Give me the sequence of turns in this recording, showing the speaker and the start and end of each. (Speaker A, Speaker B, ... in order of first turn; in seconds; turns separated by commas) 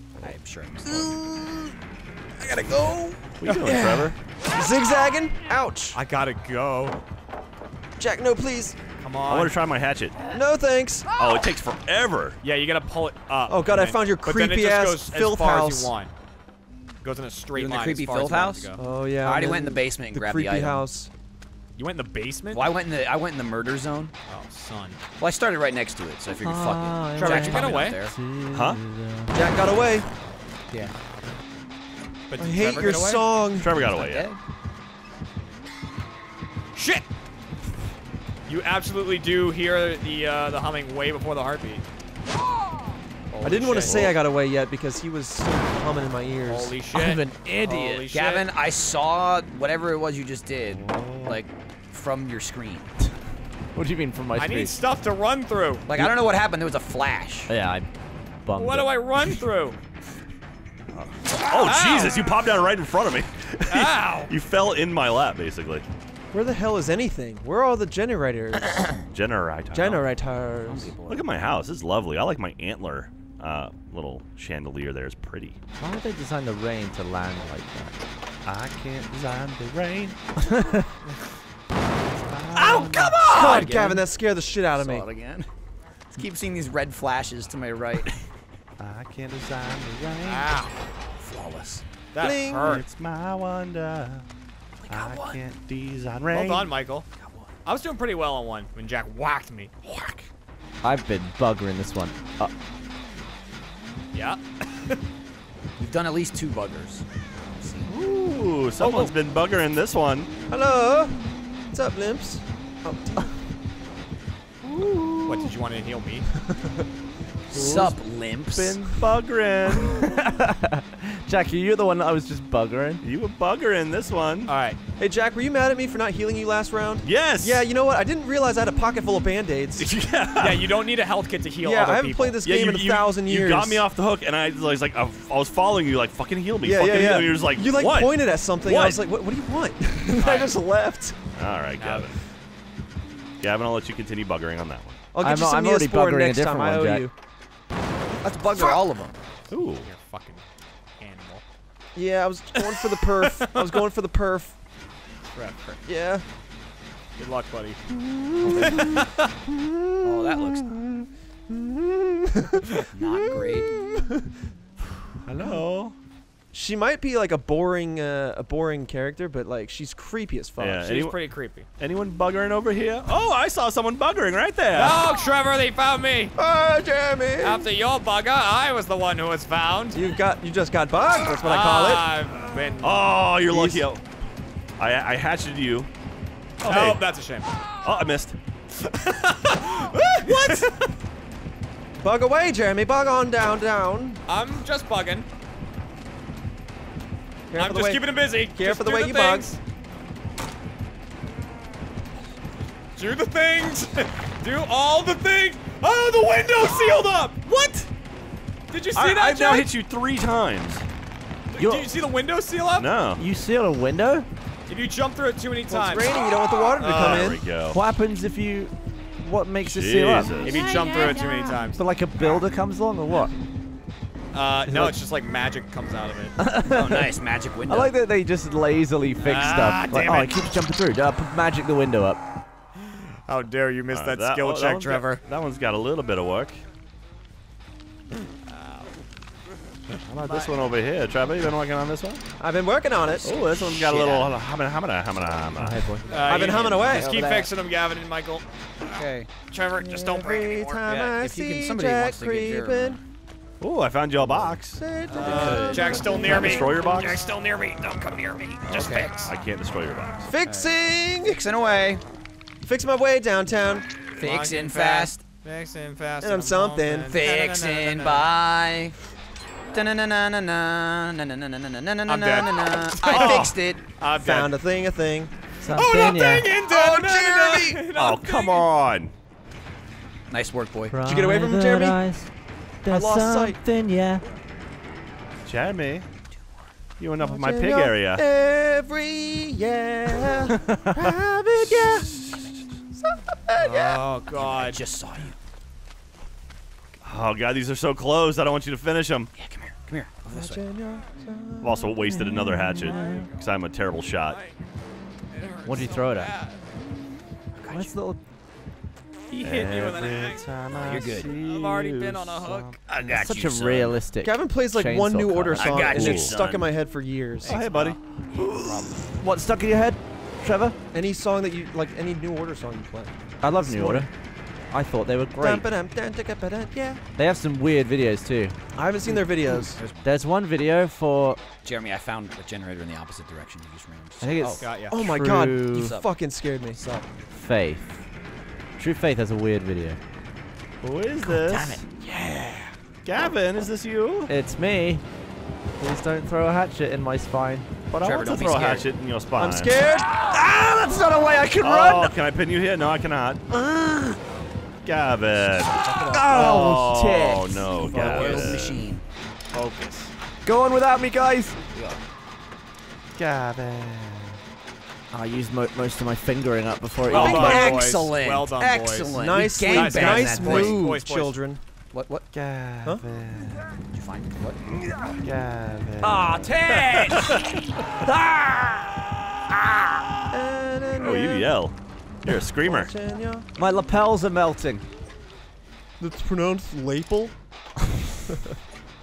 Speaker A: 0.2-1.3, Speaker A: 2.5-3.1, Speaker B: 3.4-4.2, Speaker C: 3.5-3.9, Speaker D: 3.6-6.0, Speaker C: 5.9-7.0, Speaker D: 8.0-8.8, Speaker C: 9.0-9.5, Speaker B: 9.2-10.2, Speaker D: 10.3-11.1, Speaker B: 11.2-12.4, Speaker C: 12.4-16.1, Speaker D: 13.5-15.9, Speaker C: 17.0-18.8, Speaker A: 17.5-20.8, Speaker D: 18.8-21.1, Speaker C: 21.8-22.8, Speaker A: 22.5-24.1, Speaker C: 24.3-25.0, Speaker A: 25.2-28.1, Speaker E: 26.4-29.4, Speaker C: 27.2-28.0, Speaker B: 28.5-28.8, Speaker D: 29.3-30.1, Speaker C: 32.3-33.3, Speaker D: 32.4-33.7, Speaker B: 33.6-34.3, Speaker A: 33.7-34.4, Speaker C: 36.7-37.0, Speaker C: 38.5-41.8, Speaker C: 43.3-44.1, Speaker D: 43.4-46.7, Speaker C: 46.5-48.5, Speaker E: 46.9-48.0, Speaker A: 48.1-52.9, Speaker B: 50.7-51.4, Speaker E: 53.7-54.8, Speaker C: 54.3-55.9, Speaker A: 55.9-57.5, Speaker E: 57.5-57.9, Speaker E: 58.4-59.0, Speaker C: 58.6-59.8, Speaker B: 60.9-65.8, Speaker C: 61.5-62.3, Speaker C: 63.7-64.3, Speaker D: 66.3-68.9, Speaker B: 69.1-70.0, Speaker D: 69.7-70.8, Speaker E: 70.2-70.9, Speaker A: 70.6-71.3, Speaker B: 71.1-75.6, Speaker E: 75.8-78.0, Speaker B: 78.5-80.2, Speaker E: 80.4-80.8, Speaker B: 82.2-83.4, Speaker A: 82.5-84.0, Speaker D: 83.2-85.0, Speaker A: 84.7-85.5, Speaker A: 86.1-88.2, Speaker B: 88.8-90.5, Speaker C: 90.2-90.7, Speaker A: 91.2-91.8, Speaker C: 92.1-92.8, Speaker D: 92.2-92.8, Speaker B: 92.6-94.2, Speaker A: 94.8-95.4, Speaker B: 94.9-96.7, Speaker C: 96.3-97.1, Speaker A: 97.2-97.5, Speaker C: 97.6-99.7, Speaker E: 100.8-102.5, Speaker C: 104.1-105.0, Speaker A: 105.8-107.0, Speaker A: 107.6-107.9, Speaker B: 107.9-110.3, Speaker C: 108.8-109.1, Speaker D: 110.5-113.3, Speaker E: 114.8-115.3, Speaker C: 115.2-116.3, Speaker D: 116.5-116.8, Speaker A: 117.5-119.0, Speaker B: 117.6-117.9, Speaker B: 118.5-120.2, Speaker E: 119.8-123.0, Speaker B: 123.0-124.5, Speaker C: 124.5-124.8, Speaker D: 125.0-129.9, Speaker B: 127.0-127.6, Speaker B: 129.8-130.8, Speaker C: 130.4-132.4, Speaker D: 131.6-133.8, Speaker B: 132.4-139.0, Speaker D: 136.6-141.2, Speaker C: 140.2-140.6, Speaker B: 141.3-142.2, Speaker C: 141.8-142.1, Speaker B: 143.4-145.0, Speaker D: 145.1-147.1, Speaker E: 145.2-147.1, Speaker D: 148.2-148.8, Speaker A: 148.5-149.2, Speaker B: 149.5-149.9, Speaker C: 149.6-150.4, Speaker C: 151.0-151.4, Speaker D: 151.9-154.5, Speaker C: 153.2-153.6, Speaker A: 155.3-155.8, Speaker D: 155.8-156.2, Speaker C: 157.2-157.8, Speaker D: 157.9-160.5, Speaker A: 158.4-159.0, Speaker C: 158.6-159.3, Speaker A: 160.0-160.7, Speaker B: 160.7-161.1, Speaker D: 161.5-164.3, Speaker A: 162.9-163.7, Speaker B: 165.2-165.9, Speaker D: 166.5-170.8, Speaker B: 170.6-171.2, Speaker C: 170.8-171.7, Speaker B: 171.8-175.1, Speaker C: 174.7-176.3, Speaker D: 176.3-177.7, Speaker C: 177.4-180.0, Speaker D: 179.9-182.1, Speaker C: 181.4-183.0, Speaker B: 182.8-184.0, Speaker D: 183.4-183.8, Speaker B: 184.8-185.9, Speaker B: 186.6-187.0, Speaker C: 186.6-187.6, Speaker B: 187.8-188.3, Speaker C: 188.8-190.9, Speaker D: 190.2-190.7, Speaker D: 192.0-194.2, Speaker C: 194.3-195.2, Speaker D: 197.5-199.5, Speaker C: 197.5-199.6, Speaker C: 202.9-207.5, Speaker C: 208.7-209.7, Speaker B: 208.9-210.9, Speaker C: 211.5-212.9, Speaker E: 211.6-211.9, Speaker B: 212.7-213.2, Speaker E: 213.2-214.2, Speaker C: 214.7-217.3, Speaker D: 215.7-217.4, Speaker B: 216.8-217.8, Speaker E: 217.7-223.3, Speaker B: 219.6-220.7, Speaker C: 220.4-221.8, Speaker C: 224.3-226.3, Speaker E: 224.7-225.0, Speaker E: 226.4-232.2, Speaker A: 226.7-227.9, Speaker C: 229.2-230.4, Speaker C: 232.8-235.2, Speaker B: 233.9-236.6, Speaker C: 238.4-238.9, Speaker B: 240.1-242.2, Speaker D: 242.4-243.2, Speaker A: 243.2-244.4, Speaker B: 243.2-246.0, Speaker E: 245.6-246.1, Speaker C: 246.1-248.4, Speaker D: 246.2-247.2, Speaker A: 246.3-247.5, Speaker A: 248.9-249.3, Speaker C: 249.5-251.2, Speaker D: 249.8-253.0, Speaker A: 251.2-253.0, Speaker B: 253.6-254.8, Speaker D: 254.7-256.7, Speaker C: 255.1-259.3, Speaker A: 255.1-256.6, Speaker B: 256.1-257.2, Speaker A: 258.7-259.2, Speaker B: 259.2-260.3, Speaker D: 260.3-261.4, Speaker C: 260.4-260.7, Speaker A: 261.2-262.0, Speaker D: 262.6-263.9, Speaker C: 264.2-268.3, Speaker A: 264.2-265.2, Speaker D: 266.2-267.1, Speaker A: 267.1-268.9, Speaker A: 269.7-273.8, Speaker C: 272.1-274.6, Speaker B: 273.1-273.6, Speaker D: 274.2-275.3, Speaker E: 275.6-276.5, Speaker C: 275.7-278.7, Speaker D: 276.6-277.9, Speaker B: 277.9-279.1, Speaker A: 280.3-280.9, Speaker E: 280.9-282.3, Speaker D: 281.0-282.0, Speaker E: 282.8-284.2, Speaker D: 282.9-283.6, Speaker B: 285.4-286.1, Speaker B: 287.0-288.2, Speaker D: 287.2-292.1, Speaker E: 290.6-291.2, Speaker B: 291.6-292.6, Speaker D: 293.0-294.0, Speaker C: 293.5-294.8, Speaker A: 294.3-295.4, Speaker B: 297.0-299.3, Speaker A: 299.3-300.6, Speaker D: 300.3-302.2, Speaker B: 301.6-304.4, Speaker E: 302.3-303.3, Speaker C: 302.8-303.3, Speaker C: 304.2-304.6, Speaker C: 305.3-306.6, Speaker E: 305.6-306.3, Speaker A: 307.5-308.0, Speaker E: 307.7-308.2, Speaker C: 309.3-310.4, Speaker B: 309.4-312.8, Speaker A: 310.8-311.3, Speaker C: 311.2-312.7, Speaker A: 312.9-313.9, Speaker E: 313.1-315.9, Speaker D: 314.2-317.6, Speaker A: 315.5-316.7, Speaker B: 315.7-316.4, Speaker C: 317.4-318.0, Speaker B: 317.4-318.9, Speaker A: 318.6-318.9, Speaker E: 319.2-320.8, Speaker D: 320.9-324.1, Speaker E: 323.4-324.1, Speaker E: 324.7-325.6, Speaker D: 325.4-327.0, Speaker E: 327.1-328.5, Speaker D: 328.7-329.8, Speaker A: 329.5-330.1, Speaker E: 330.0-331.4, Speaker A: 331.6-334.7, Speaker E: 334.2-336.0, Speaker C: 334.6-335.0, Speaker D: 334.9-337.0, Speaker A: 335.7-336.1, Speaker E: 337.3-338.0, Speaker E: 338.8-340.0, Speaker B: 340.8-341.8, Speaker E: 341.2-342.7, Speaker B: 343.0-344.3, Speaker E: 344.3-345.0, Speaker E: 345.8-347.7, Speaker B: 347.9-349.8, Speaker A: 348.0-348.9, Speaker D: 349.4-350.1, Speaker E: 350.2-352.1, Speaker B: 351.6-353.4, Speaker E: 353.5-354.2, Speaker B: 354.8-358.9, Speaker D: 355.7-356.5, Speaker E: 356.1-357.7, Speaker A: 357.8-359.0, Speaker C: 359.5-360.1, Speaker E: 360.4-361.6, Speaker A: 361.7-362.0, Speaker B: 363.1-364.4, Speaker E: 365.1-367.7, Speaker A: 367.1-370.8, Speaker C: 367.1-371.4, Speaker D: 367.2-367.9, Speaker D: 369.0-371.6, Speaker A: 371.9-372.3, Speaker B: 372.3-373.7, Speaker A: 373.9-374.6, Speaker B: 374.9-377.6, Speaker E: 376.0-377.5, Speaker E: 378.0-378.9, Speaker D: 380.3-381.6, Speaker B: 381.0-382.9, Speaker D: 382.6-383.4, Speaker E: 383.6-384.9, Speaker D: 386.0-387.3